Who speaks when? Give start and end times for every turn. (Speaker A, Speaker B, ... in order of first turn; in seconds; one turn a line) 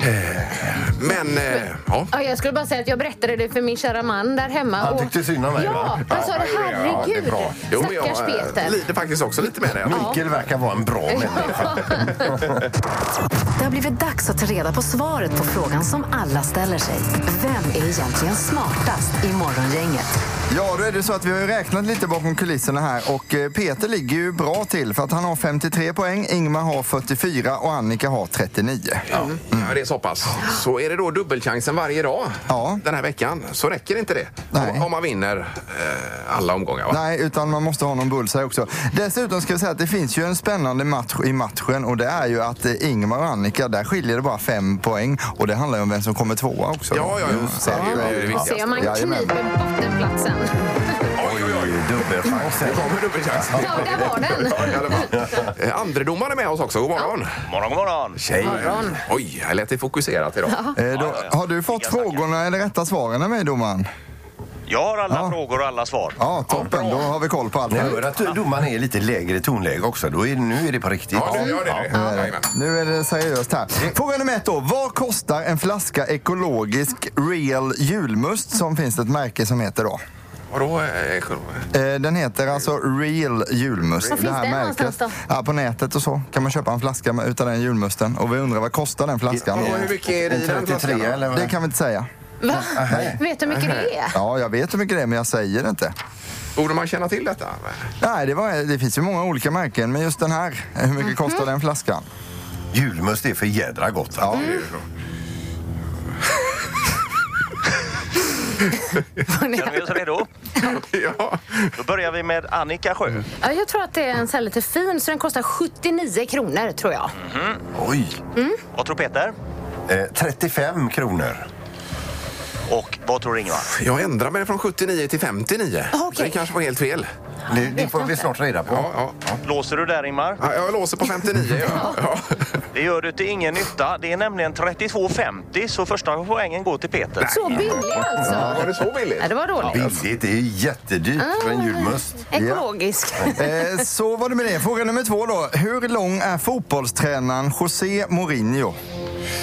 Speaker A: 0.2-2.1
Speaker B: 0.2-0.5
Speaker C: 2.1-8.8
Speaker B: 4.8-6.3
Speaker A: 6.1-10.2
Speaker B: 6.9-7.5
Speaker B: 9.8-12.7
Speaker C: 9.9-10.2
Speaker C: 11.1-12.2
Speaker D: 13.6-20.1
Speaker E: 20.5-29.8
Speaker A: 29.1-37.0
Speaker E: 32.5-32.8
Speaker E: 34.5-34.9
Speaker E: 36.9-49.4
Speaker A: 46.9-48.9
Speaker B: 47.4-48.4
Speaker C: 47.8-51.0
Speaker A: 51.2-51.8
Speaker B: 51.2-55.5
Speaker A: 52.6-57.3
Speaker C: 53.6-55.1
Speaker F: 57.5-58.4
Speaker B: 58.3-58.9
Speaker A: 58.3-60.6
Speaker C: 58.4-59.0
Speaker C: 60.5-60.8
Speaker E: 60.8-63.9
Speaker F: 60.9-62.2
Speaker F: 64.7-66.2
Speaker E: 65.1-65.4
Speaker E: 66.2-68.0
Speaker A: 66.5-67.1
Speaker B: 67.7-71.9
Speaker A: 71.1-72.5
Speaker C: 71.9-72.3
Speaker E: 71.9-80.0
Speaker A: 80.5-81.7
Speaker E: 81.7-89.9
Speaker C: 84.1-85.2
Speaker B: 89.3-91.5
Speaker A: 89.5-91.3
Speaker E: 91.3-92.1
Speaker C: 92.4-94.2
Speaker B: 92.7-93.2
Speaker E: 92.9-93.2
Speaker A: 93.5-93.9
Speaker E: 94.1-95.9
Speaker A: 96.6-97.9
Speaker E: 98.0-102.0
Speaker B: 102.7-104.7
Speaker E: 104.2-104.6
Speaker A: 104.3-104.7
Speaker C: 109.3-110.0
Speaker F: 109.5-110.3
Speaker A: 110.6-111.8
Speaker F: 111.8-113.3
Speaker C: 113.4-117.1
Speaker F: 117.2-117.6
Speaker B: 117.8-118.2
Speaker F: 118.7-119.3
Speaker B: 119.9-121.5
Speaker F: 122.7-123.7
Speaker A: 123.7-127.1
Speaker C: 125.9-126.4
Speaker B: 127.5-129.4
Speaker C: 127.5-128.2
Speaker A: 128.7-129.2
Speaker F: 129.4-130.4
Speaker A: 130.4-132.4
Speaker C: 131.7-132.0
Speaker F: 132.7-137.6
Speaker A: 137.2-139.9
Speaker C: 137.3-138.6
Speaker B: 137.5-138.6
Speaker C: 139.2-139.9
Speaker B: 139.6-142.2
Speaker C: 141.2-143.8
Speaker E: 142.3-142.7
Speaker E: 143.3-148.8